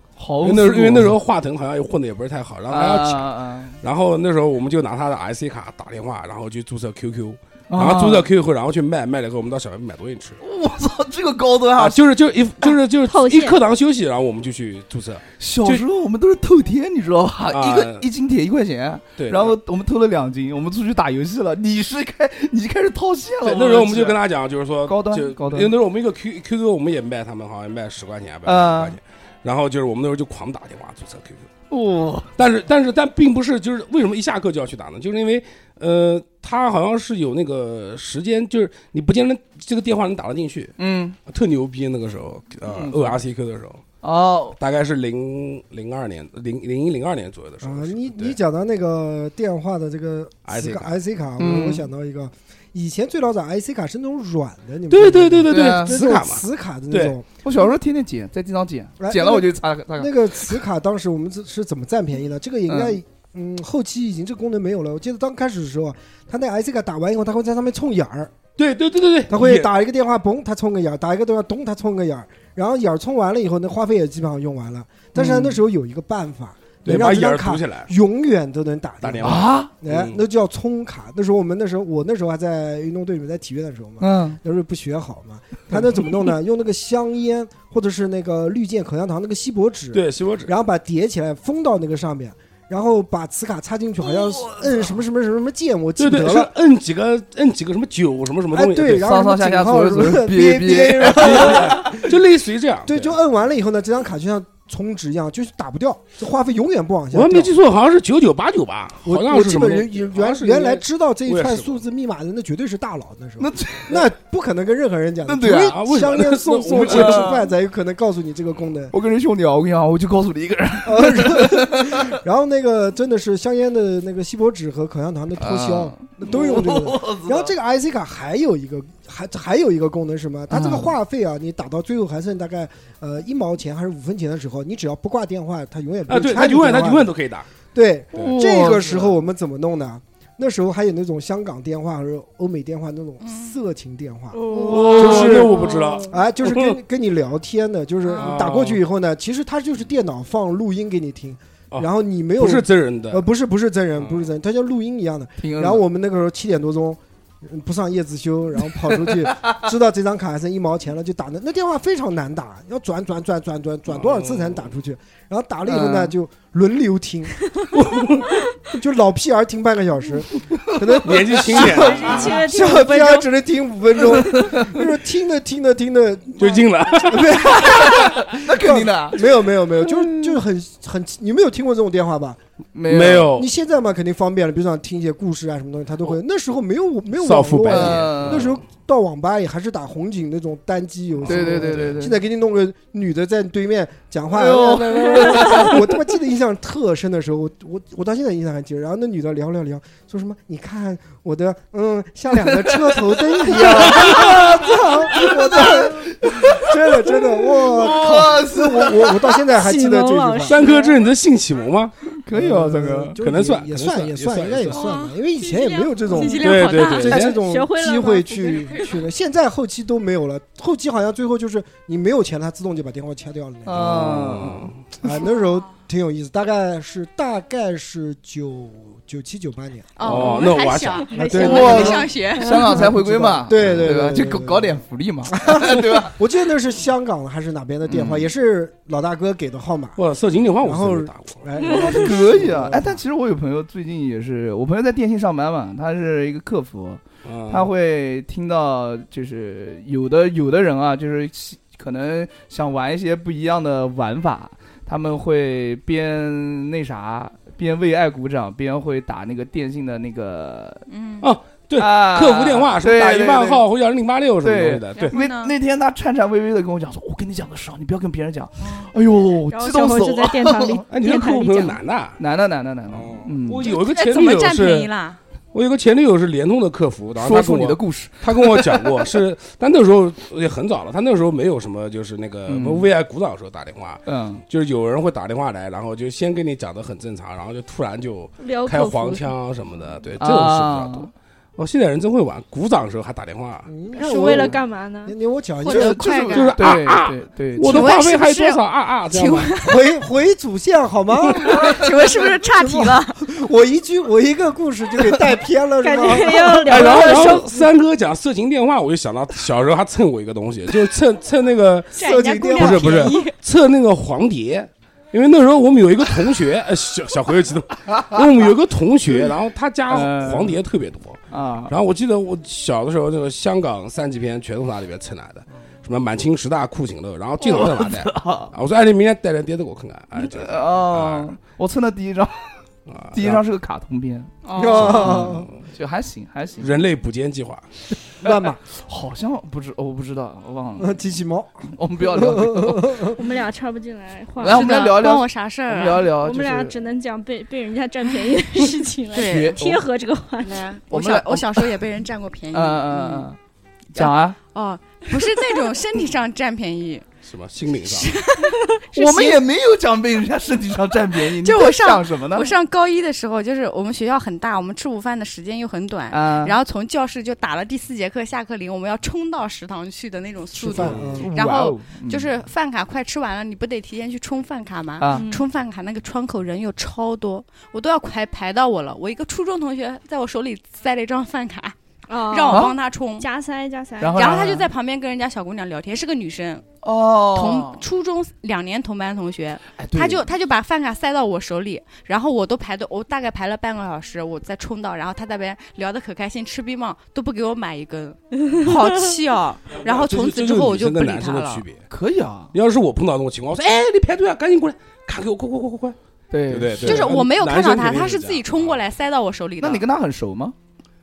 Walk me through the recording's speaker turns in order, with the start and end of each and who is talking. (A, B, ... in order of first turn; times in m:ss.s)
0:00.2-0:01.1 A
0:00.4-0:03.3 B
0:02.7-0:03.8 A
0:03.8-0:10.4 B
0:07.7-0:08.3 A
0:10.4-0:12.0 A
0:11.8-0:15.9 B
0:13.1-0:13.6 C
0:15.4-0:24.2 A
0:17.5-0:18.0 B
0:19.2-0:19.6 B
0:23.4-0:31.5 B
0:24.8-0:25.7 A
0:28.4-0:29.0 A
0:31.7-0:32.3 A
0:32.4-0:40.8 B
0:40.8-0:41.2 A
0:41.2-0:43.8 B
0:42.7-0:43.2 A
0:44.0-0:44.6 A
0:44.6-0:48.4 B
0:47.6-0:57.2 D
0:50.5-0:50.9 B
0:51.4-0:51.8 A
0:54.9-0:57.2 B
0:55.5-0:56.0 A
0:57.4-1:00.6 A
0:59.0-1:08.3 D
1:02.7-1:03.0 A
1:08.6-1:09.7 B
1:09.3-1:36.5 D
1:15.1-1:15.6 A
1:16.8-1:17.9 B
1:19.0-1:20.2 B
1:19.2-1:19.7 A
1:24.0-1:24.4 A
1:29.9-1:30.5 B
1:34.3-1:34.9 A
1:36.0-1:39.1 B
1:38.5-1:42.0 D
1:39.0-1:42.0 A
1:41.2-1:43.2 B
1:42.9-1:47.5 D
1:47.1-1:51.8 B
1:49.0-1:58.9 D
1:53.4-1:54.0 A
1:55.2-1:55.8 A
1:55.6-1:57.4 B
1:56.9-1:57.4 A
1:58.9-2:02.1 A
2:00.8-2:17.1 D
2:05.4-2:07.5 A
2:10.5-2:10.9 A
2:16.1-2:17.5 B
2:17.7-2:25.6 D
2:18.1-2:19.2 A
2:23.2-2:23.5 E
2:24.4-2:26.0 C
2:24.5-2:25.5 A
2:24.7-2:26.8 B
2:26.1-2:47.5 D
2:28.1-2:28.4 E
2:28.2-2:28.8 B
2:31.7-2:33.2 B
2:34.0-2:34.3 B
2:35.4-2:35.8 A
2:38.9-2:39.6 A
2:43.9-2:44.7 B
2:45.7-2:46.1 A
2:47.7-2:48.4 B
2:48.7-3:02.4 D
2:51.0-2:52.4 B
2:51.6-2:53.3 C
2:54.3-2:54.8 A
2:56.4-2:58.2 B
2:57.7-2:59.2 A
3:02.7-3:03.3 A
3:02.9-3:03.5 B
3:03.3-3:30.7 D
3:07.2-3:08.6 B
3:07.7-3:08.5 A
3:11.2-3:12.0 B
3:11.2-3:12.2 A
3:14.3-3:15.9 A
3:22.6-3:29.4 A
3:24.0-3:24.4 B
3:29.6-3:31.0 C
3:30.5-3:32.0 B
3:32.2-3:33.2 A
3:32.3-3:43.9 D
3:33.2-3:34.8 B
3:34.8-3:35.1 E
3:35.4-3:36.4 C
3:36.1-3:37.3 E
3:36.4-3:37.4 B
3:37.1-3:39.0 C
3:43.7-3:44.7 A
3:43.7-3:44.8 B
3:45.0-3:50.3 D
3:45.1-3:45.6 E
3:50.0-3:52.7 E
3:50.0-3:51.9 B
3:51.1-3:54.8 D
3:51.3-3:56.2 A
3:53.6-3:53.9 B
3:55.3-4:00.0 D
3:57.9-3:58.3 A
4:00.0-4:01.5 B
4:00.6-4:02.9 D
4:01.6-4:20.8 A
4:07.2-4:07.7 B
4:20.9-4:21.3 E
4:21.2-4:25.1 B
4:21.8-4:23.6 A
4:24.4-4:30.8 A
4:25.0-4:25.5 E
4:28.6-4:28.9 E
4:29.5-4:31.8 C
4:30.9-4:32.2 B
4:32.2-4:33.7 A
4:32.9-4:34.9 B
4:33.6-4:35.2 E
4:35.5-4:53.7 B
4:37.2-4:39.0 A
4:42.5-4:42.9 A
4:44.1-4:44.4 A
4:48.4-4:49.3 C
4:50.2-4:51.1 A
4:53.7-4:56.2 D
4:53.9-4:55.1 C
4:55.6-4:56.6 E
4:55.7-4:57.9 A
4:56.3-4:59.6 B
4:57.6-4:59.8 E
4:59.6-5:07.4 D
5:01.4-5:03.2 E
5:05.8-5:07.6 C
5:06.7-5:31.3 B
5:12.0-5:13.3 E
5:12.0-5:13.2 D
5:12.0-5:13.2 C
5:17.9-5:18.2 A
5:19.9-5:20.6 A
5:21.3-5:21.7 A
5:27.4-5:28.5 A
5:30.2-5:32.6 A
5:32.9-5:33.4 B
5:33.1-5:36.7 A
5:34.5-5:35.1 E
5:34.6-5:35.5 D
5:34.8-5:35.5 B
5:36.6-5:37.7 B
5:38.2-5:38.6 D
5:38.2-5:41.0 A
5:40.8-5:43.2 D
5:41.7-5:43.0 A
5:43.1-5:44.9 C
5:44.4-5:46.8 A
5:44.5-5:46.1 E
5:46.1-5:50.7 C
5:49.1-5:49.6 E
5:49.1-5:49.8 A
5:50.4-5:53.3 E
5:50.9-5:51.8 A
5:52.5-5:53.4 A
5:53.9-5:54.4 A
5:54.0-5:57.1 E
5:57.2-5:58.1 B
5:57.8-5:59.4 E
5:58.9-6:02.5 A
6:01.2-6:23.3 E
6:06.1-6:06.6 A
6:10.5-6:11.3 D
6:10.8-6:11.2 B
6:11.2-6:12.3 A
6:15.0-6:15.3 A
6:15.1-6:15.4 C
6:22.1-6:24.6 C
6:22.5-6:22.8 A
6:24.0-6:24.7 A
6:24.1-6:26.7 E
6:26.8-6:27.8 A
6:27.3-6:41.6 E
6:29.8-6:30.2 A
6:38.4-6:39.2 C
6:39.7-6:41.8 B
6:41.9-6:42.5 A
6:42.5-6:46.0 B
6:46.3-6:47.1 A
6:46.5-6:48.9 B
6:46.8-6:49.8 E
6:49.6-6:50.6 A